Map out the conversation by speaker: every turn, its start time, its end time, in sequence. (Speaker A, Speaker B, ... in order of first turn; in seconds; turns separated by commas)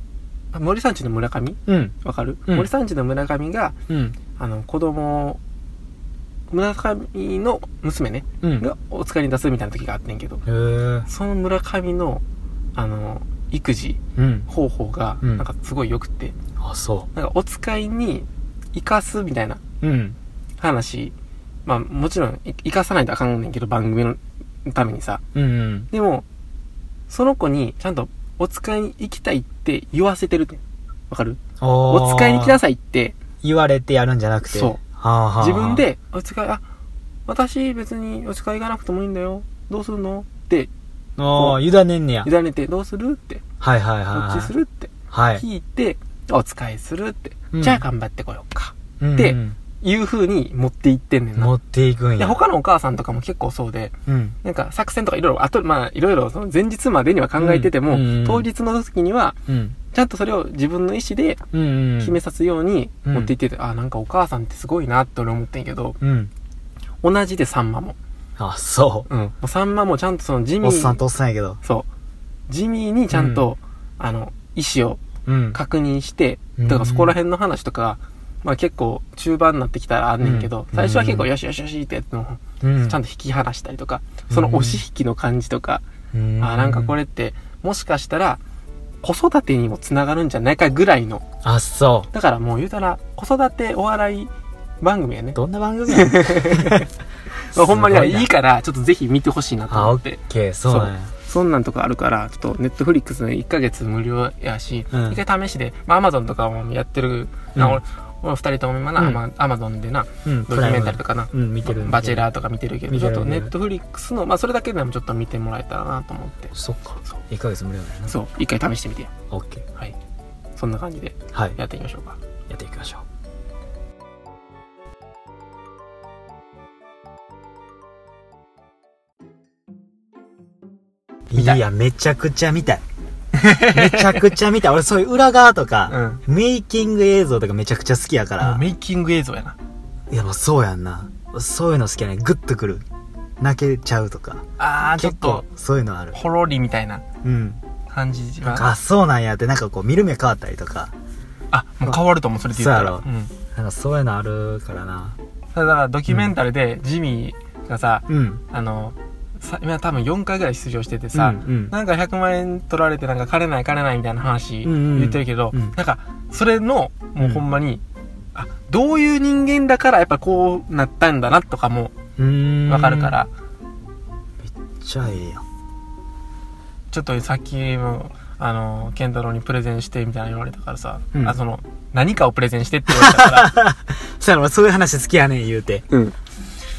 Speaker A: 0.5-3.8, Speaker B: 1.7-1.9, Speaker B: 3.9-4.2, Speaker A: 4.3-5.4, Speaker A: 6.5-10.4, Speaker B: 8.4-8.7, Speaker B: 10.4-11.1, Speaker A: 11.1-12.2, Speaker A: 12.8-16.3, Speaker B: 14.2-14.5, Speaker B: 16.6-17.1, Speaker A: 17.1-19.6, Speaker B: 19.8-20.2, Speaker A: 20.6-21.1, Speaker A: 21.6-25.2, Speaker B: 25.3-25.9, Speaker A: 25.9-26.2, Speaker A: 27.1-33.2, Speaker B: 31.6-32.6, Speaker B: 33.4-35.9, Speaker A: 34.5-34.8, Speaker A: 35.4-36.6, Speaker A: 37.3-40.7, Speaker B: 41.2-42.3, Speaker A: 41.3-41.6, Speaker A: 42.2-43.4, Speaker B: 43.6-44.5, Speaker A: 44.1-51.5, Speaker B: 45.1-45.4, Speaker B: 47.5-47.8, Speaker B: 49.0-49.6, Speaker B: 51.3-52.4, Speaker A: 52.2-59.4, Speaker B: 54.1-54.4, Speaker B: 57.4-58.5, Speaker B: 59.5-59.8, Speaker A: 59.9-61.4, Speaker B: 61.5-62.2, Speaker A: 62.0-66.0, Speaker B: 63.0-63.3, Speaker B: 66.0-66.3, Speaker A: 67.0-68.0, Speaker B: 68.4-69.1, Speaker A: 69.1-71.0, Speaker B: 70.6-71.6, Speaker A: 72.5-75.0, Speaker B: 73.1-73.5, Speaker B: 75.2-75.6, Speaker A: 75.5-85.8, Speaker B: 76.6-77.2, Speaker B: 80.2-81.3, Speaker B: 82.6-83.0, Speaker B: 84.3-84.8, Speaker B: 86.1-86.9, Speaker A: 86.4-88.4, Speaker A: 89.0-91.2, Speaker B: 91.4-92.1, Speaker A: 92.1-94.3, Speaker A: 94.8-116.5, Speaker B: 95.3-96.9, Speaker B: 97.5-98.3, Speaker B: 99.7-101.1, Speaker B: 104.9-105.2, Speaker B: 107.5-107.8, Speaker B: 110.2-112.2, Speaker B: 112.9-113.5, Speaker B: 116.5-118.2, Speaker A: 118.1-119.1, Speaker B: 119.3-119.6, Speaker A: 120.5-122.2, Speaker B: 122.5-123.0, Speaker B: 131.3-132.8, Speaker A: 131.3-131.6, Speaker A: 133.3-134.2, Speaker B: 133.4-138.6, Speaker A: 135.9-136.2, Speaker A: 138.4-139.6, Speaker B: 140.1-142.8, Speaker B: 143.4-144.4, Speaker A: 144.6-145.4, Speaker B: 144.9-146.2, Speaker A: 146.1-147.0, Speaker B: 147.2-147.6, Speaker A: 147.9-148.7, Speaker B: 148.4-150.9, Speaker A: 151.5-153.3, Speaker B: 152.5-155.2, Speaker A: 155.5-167.8, Speaker B: 158.1-158.4, Speaker B: 161.1-161.7, Speaker B: 164.6-165.7, Speaker A: 168.3-171.9, Speaker B: 172.2-173.1, Speaker A: 172.7-173.3, Speaker B: 174.4-175.4, Speaker A: 176.9-183.5, Speaker B: 182.9-185.9, Speaker A: 185.9-186.2